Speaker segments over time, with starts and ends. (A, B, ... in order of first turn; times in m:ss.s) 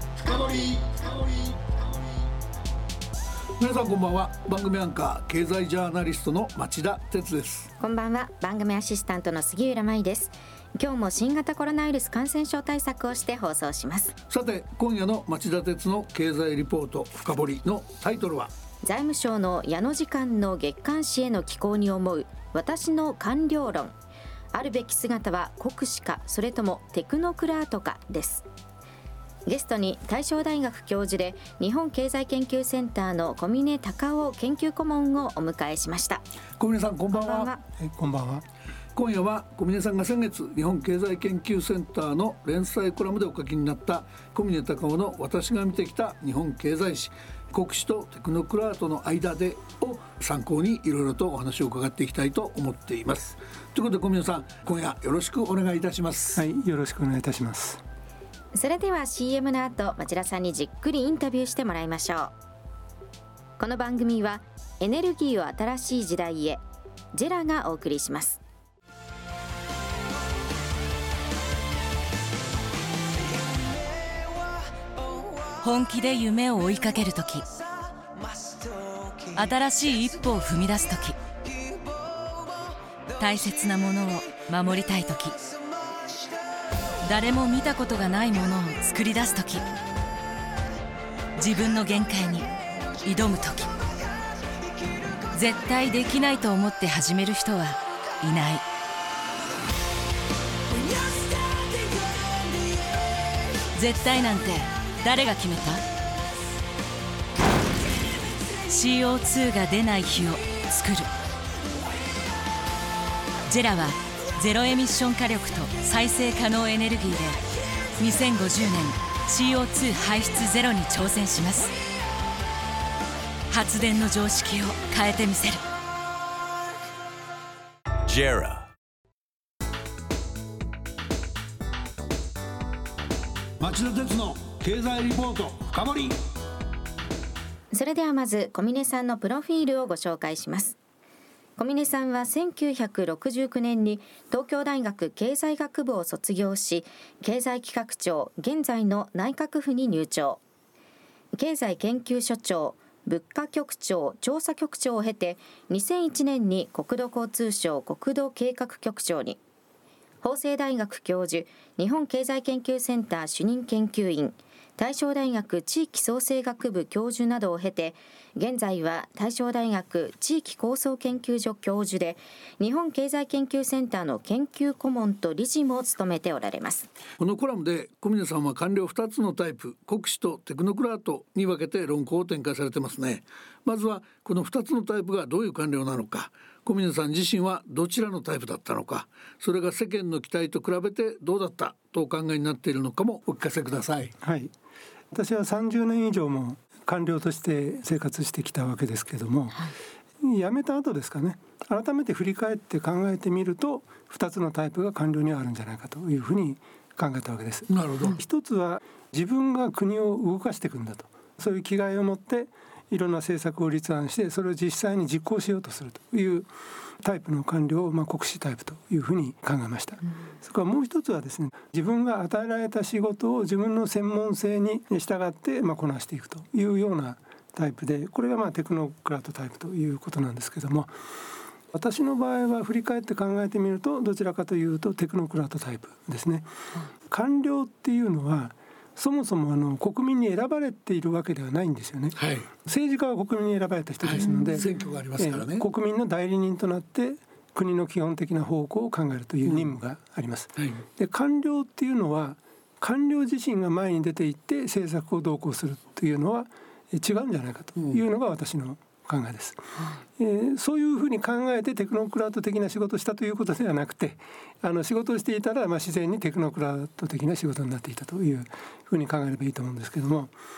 0:00.2-0:01.8 A
0:03.6-0:07.7 A
0:07.8-0:14.1 B
0:14.3-0:18.5 A
0:18.8-0:23.9 B
0:24.5-0:28.5 B
0:29.5-0:36.2 B
0:36.6-0:37.5 A
0:37.1-0:37.6 B
0:37.8-0:38.4 C
0:39.0-0:56.4 A
0:56.4-0:57.8 C
0:58.5-1:02.3 B
1:03.6-1:06.6 B
1:07.1-1:08.4 B
1:15.6-1:17.6 D
1:19.3-1:21.2 D
1:23.2-1:25.4 D
1:27.0-1:29.7 D
1:31.4-1:32.5 D
1:33.0-1:33.7 D
1:35.3-1:38.6 D
1:40.9-1:41.7 D
1:43.7-1:45.8 D
1:48.6-1:51.1 D
1:53.5-1:57.4 D
1:58.0-2:01.7 D
2:03.5-2:05.6 D
2:08.1-2:08.6 A
2:13.6-2:16.2 A
2:17.7-2:20.8 B
2:21.6-2:30.4 B
2:31.4-2:39.4 B
2:40.2-2:56.9 B
2:57.2-3:14.1 A
3:14.2-3:14.5 C
3:15.1-3:36.5 C
3:27.7-3:28.2 A
3:37.0-3:50.9 C
3:51.7-3:56.5 C
3:57.1-4:30.3 C
4:02.2-4:02.5 A
4:04.0-4:05.6 A
4:09.4-4:09.7 A